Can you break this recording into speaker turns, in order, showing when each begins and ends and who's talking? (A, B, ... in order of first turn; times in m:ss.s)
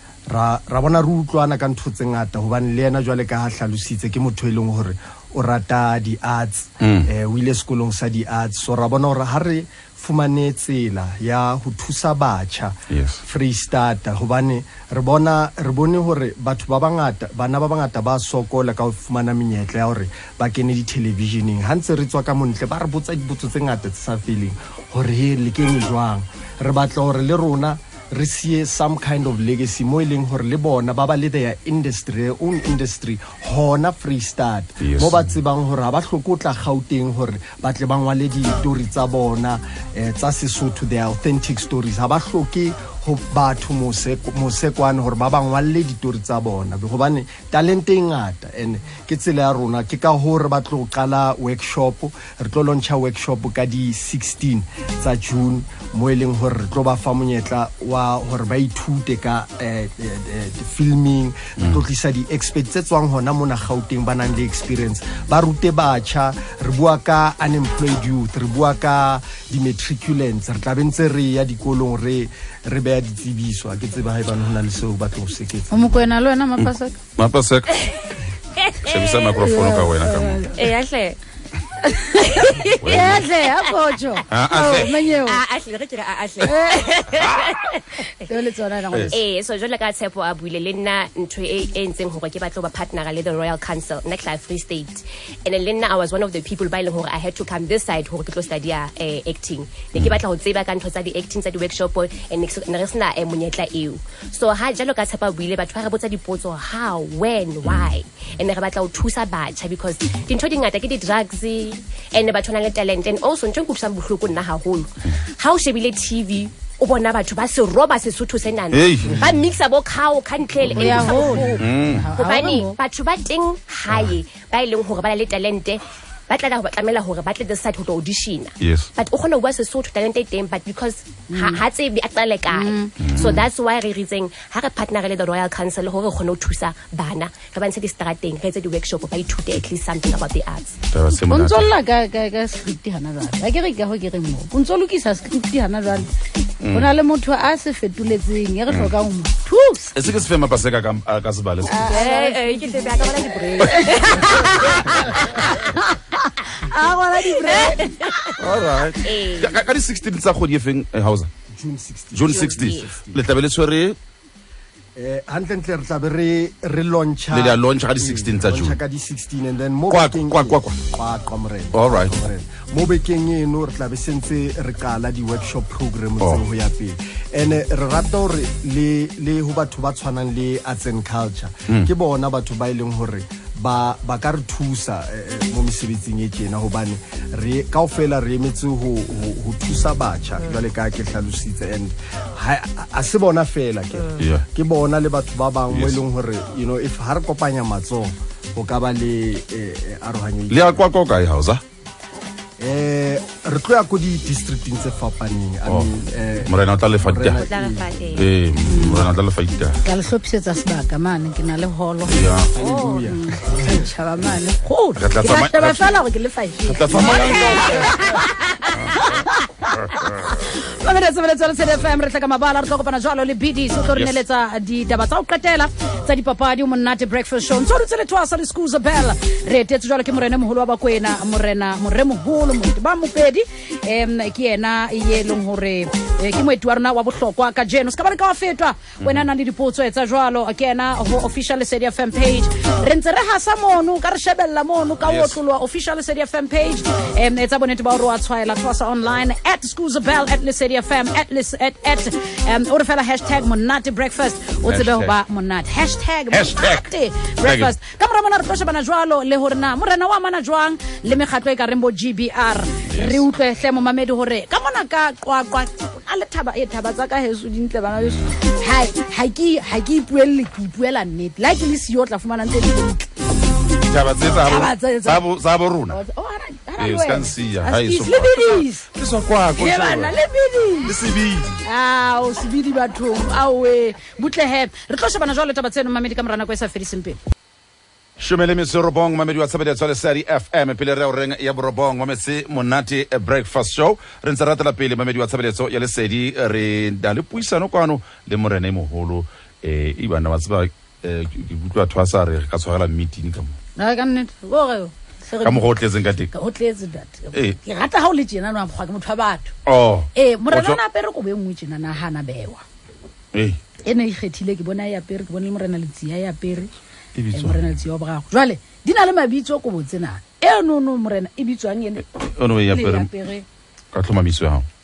0:00.3-1:16.1 A
0:06.8-0:07.1 B
0:12.9-0:13.2 B
0:34.8-0:35.4 B
1:15.7-1:17.0 C
1:16.6-1:17.8 B
1:18.6-1:19.2 D
1:18.8-1:20.5 B
1:19.4-1:20.7 C
1:20.5-1:21.2 D
1:21.8-1:25.4 C
1:22.2-1:23.7 D
1:22.8-1:23.2 B
1:24.3-1:24.9 B
1:24.5-1:27.8 D
1:26.4-1:27.1 C
1:27.2-1:27.5 B
1:28.3-1:29.2 C
1:29.1-2:20.8 D
1:47.6-1:48.0 B
1:58.7-1:59.2 B
2:00.7-2:02.8 C
2:01.6-2:02.1 B
2:03.9-2:04.1 B
2:08.6-2:08.9 B
2:11.3-2:11.6 C
2:12.5-2:13.0 C
2:13.0-2:13.4 B
2:20.9-2:21.7 B
2:21.3-2:26.1 C
2:26.6-2:26.9 B
2:26.7-2:29.9 C
2:30.0-2:31.8 B
2:31.6-2:33.0 C
2:31.7-2:35.7 D
2:33.6-2:38.2 C
2:37.3-2:38.4 D
2:38.4-2:41.3 B
2:39.0-2:39.6 D
2:41.5-2:43.2 A
2:42.1-2:44.0 B
2:42.3-2:42.9 D
2:45.0-3:20.8 A
2:47.3-2:48.8 B
2:49.9-2:50.8 B
2:51.7-2:52.2 B
2:56.2-2:56.4 B
3:14.2-3:14.4 B
3:15.7-3:16.0 B
3:20.5-3:21.6 B
3:22.6-3:28.1 A
3:25.7-3:27.4 B
3:27.3-3:28.3 D
3:28.2-3:29.8 B
3:28.7-3:29.1 C
3:29.8-3:32.2 C
3:32.1-3:32.5 B
3:32.6-3:33.8 A
3:32.6-3:33.1 D
3:33.1-4:33.1 C
3:35.0-3:36.0 B
3:36.6-3:38.0 B
3:38.7-3:39.0 B
3:39.7-3:40.3 B
3:59.0-3:59.3 B
4:05.0-4:05.4 B
4:14.7-4:15.2 B
4:16.3-4:16.9 B
4:17.4-4:17.7 B
4:22.9-4:23.2 B
4:28.0-4:28.4 B
4:33.8-4:36.0 B
4:34.4-4:35.2 C
4:35.9-4:38.9 C
4:36.8-4:40.2 B
4:39.6-4:41.0 C
4:40.8-4:41.6 B
4:41.6-4:47.2 C
4:48.2-5:03.6 B
5:03.8-5:05.7 C
5:05.4-5:06.3 B
5:06.3-5:09.5 C
5:09.7-5:10.8 B
5:10.2-5:12.6 C
5:13.3-5:13.6 B
5:13.8-5:16.7 C
5:17.2-5:17.8 B
5:17.3-5:22.1 C
5:22.1-5:23.1 B
5:22.7-5:23.4 C
5:23.9-5:24.6 B